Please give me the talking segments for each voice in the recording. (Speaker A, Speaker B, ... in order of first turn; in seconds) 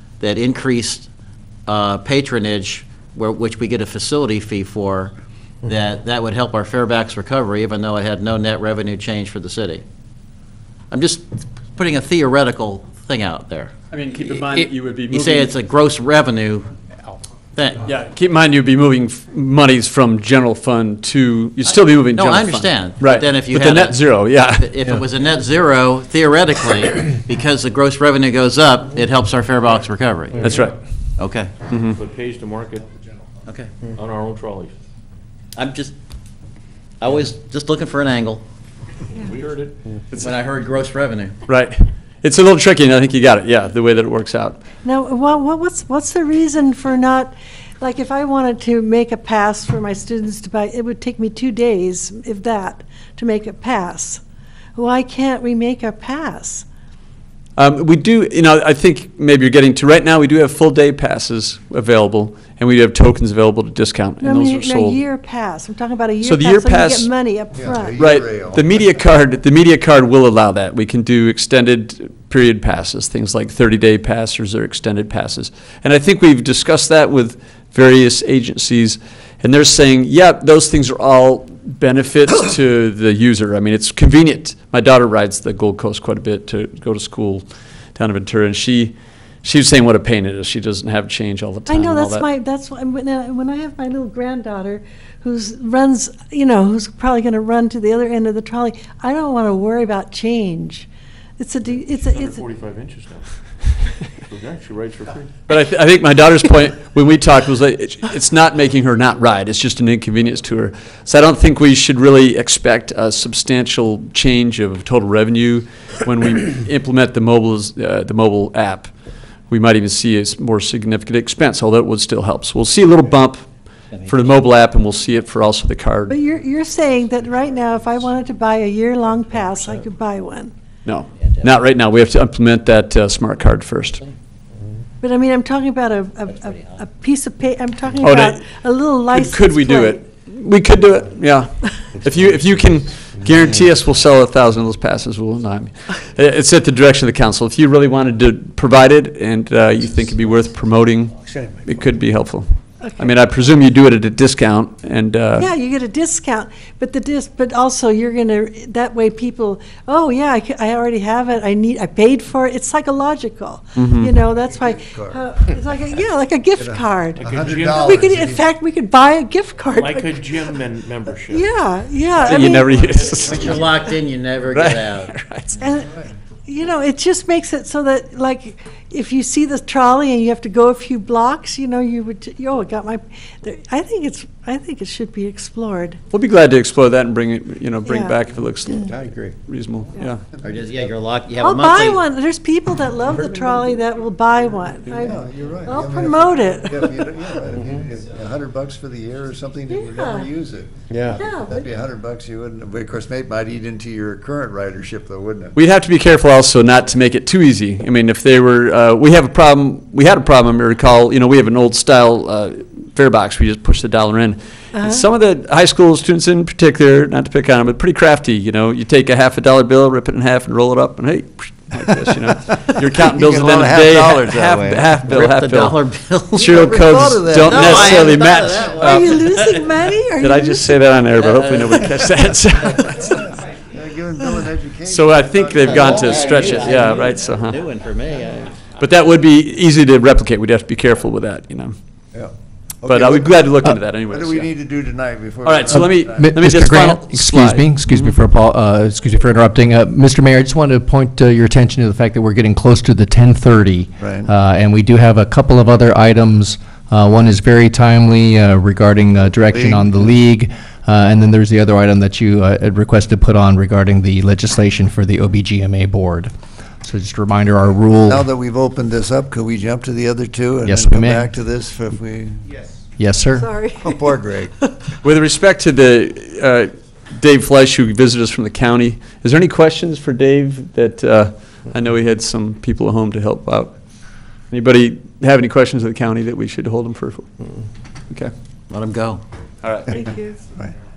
Speaker A: 0.2-1.1, 1.7-9.8, 10.9-13.7, 14.2-16.7, 17.6-17.9, 21.6-30.5, 31.2-31.5, 33.5-33.7, 35.6-36.0, 37.0-38.4, 40.1-41.4, 123.9-124.3, 131.2-131.5, 136.3-136.9, 173.2-175.1, 190.4-192.0, 225.1-226.7, 227.4-229.6, 231.2-232.0, 235.6-238.5, 288.7-289.2
Speaker B: 13.9-15.5, 17.8-25.0, 30.4-30.8, 31.7-32.0, 41.5-44.6, 57.6-65.0, 66.2-67.1, 67.9-92.3, 105.5-118.9, 119.5-123.5, 124.1-126.2, 130.9-134.0, 138.0-138.4, 139.1-155.5, 163.8-164.2, 172.2-173.7, 174.5-175.6, 186.1-190.2, 205.6-225.8, 226.3-229.2, 230.2-233.3, 234.8-237.6, 238.8-241.8, 242.8-244.5, 245.4-248.2, 275.0-283.7, 284.5-287.3, 289.6-290.0
Speaker C: 31.8-32.9, 33.9-34.8, 39.2-39.9, 101.6-105.3, 167.2-167.9, 169.7-173.9, 200.9-201.2
Speaker D: 44.8-54.2, 54.8-56.6, 64.2-68.0, 91.7-102.5, 126.1-130.5, 135.0-140.1, 152.8-153.1, 155.3-170.5, 171.3-173.3, 175.5-175.9, 176.5-186.0, 187.8-188.9, 191.4-197.1, 199.7-200.3, 201.1-201.7, 214.7-215.1, 228.8-230.8, 273.4-274.7, 289.9-290.4
Speaker E: 67.5-68.7, 164.3-165.8, 166.6-168.4, 175.8-176.1, 195.0-205.5, 223.0-224.9, 226.4-228.5, 233.1-237.0, 242.1-243.5, 244.1-246.4, 254.0-254.3, 259.5-260.0, 268.1-272.4, 273.8-274.5
Speaker F: 245.7-268.3, 270.6-271.3, 273.0-273.5